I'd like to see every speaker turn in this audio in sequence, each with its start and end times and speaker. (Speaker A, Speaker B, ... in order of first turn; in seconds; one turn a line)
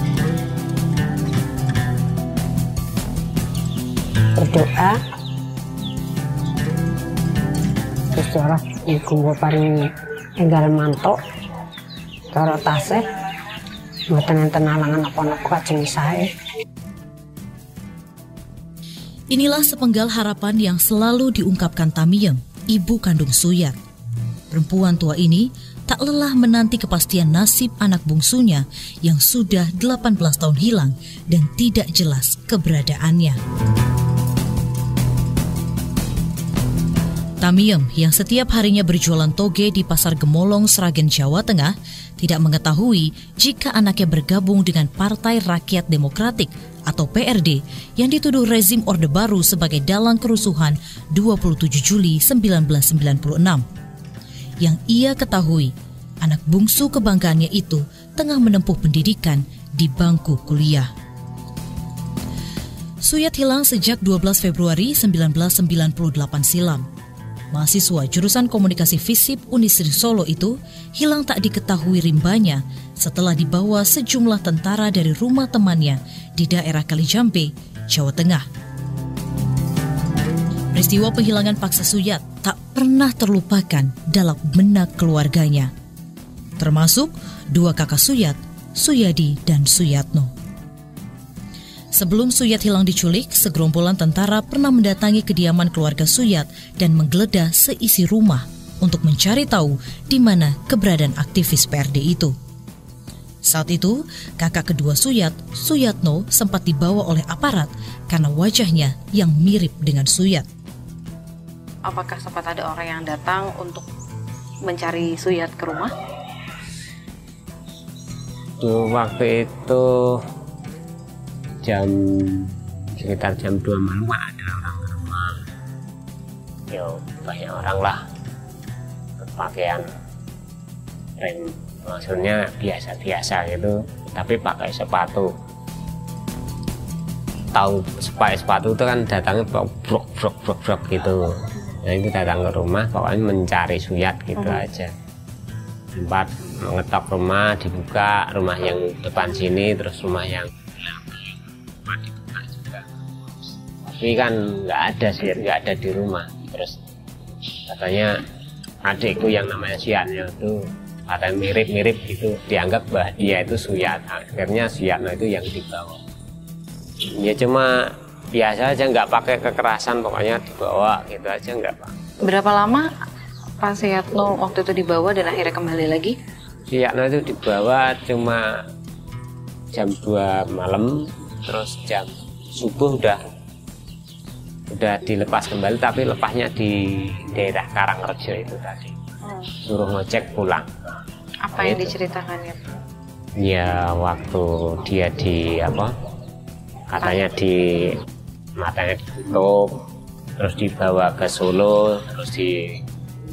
Speaker A: 4.4-5.0
Speaker A: 8.1-11.2
Speaker A: 12.3-13.1
Speaker A: 14.1-16.3
Speaker B: 19.3-23.8
Speaker B: 24.5-33.4
Speaker B: 37.4-53.6
Speaker B: 54.6-60.9
Speaker B: 63.0-66.9
Speaker B: 67.5-78.5
Speaker B: 80.7-85.7
Speaker B: 86.6-90.3
Speaker B: 91.9-102.3
Speaker B: 103.5-110.5
Speaker C: 111.8-113.9
Speaker C: 114.7-115.9
Speaker D: 118.6-120.2
Speaker D: 121.6-125.5
Speaker D: 126.7-128.0
Speaker D: 129.2-129.9
Speaker D: 131.2-135.3
Speaker D: 137.5-144.9
Speaker D: 145.9-152.9
Speaker D: 153.8-156.8
Speaker D: 157.7-158.2
Speaker D: 158.8-166.0
Speaker D: 167.2-171.9
Speaker C: 172.2-172.9
Speaker C: 173.6-176.2
Speaker D: 176.7-178.6
Speaker D: 179.7-183.2
Speaker D: 184.7-189.0
Speaker C: 189.2-189.5
Speaker D: 189.7-190.7
Speaker C: 191.4-192.7
Speaker D: 191.6-191.9
Speaker D: 193.4-195.9
Speaker D: 196.9-198.0
Speaker D: 198.6-199.8
Speaker D: 200.4-202.8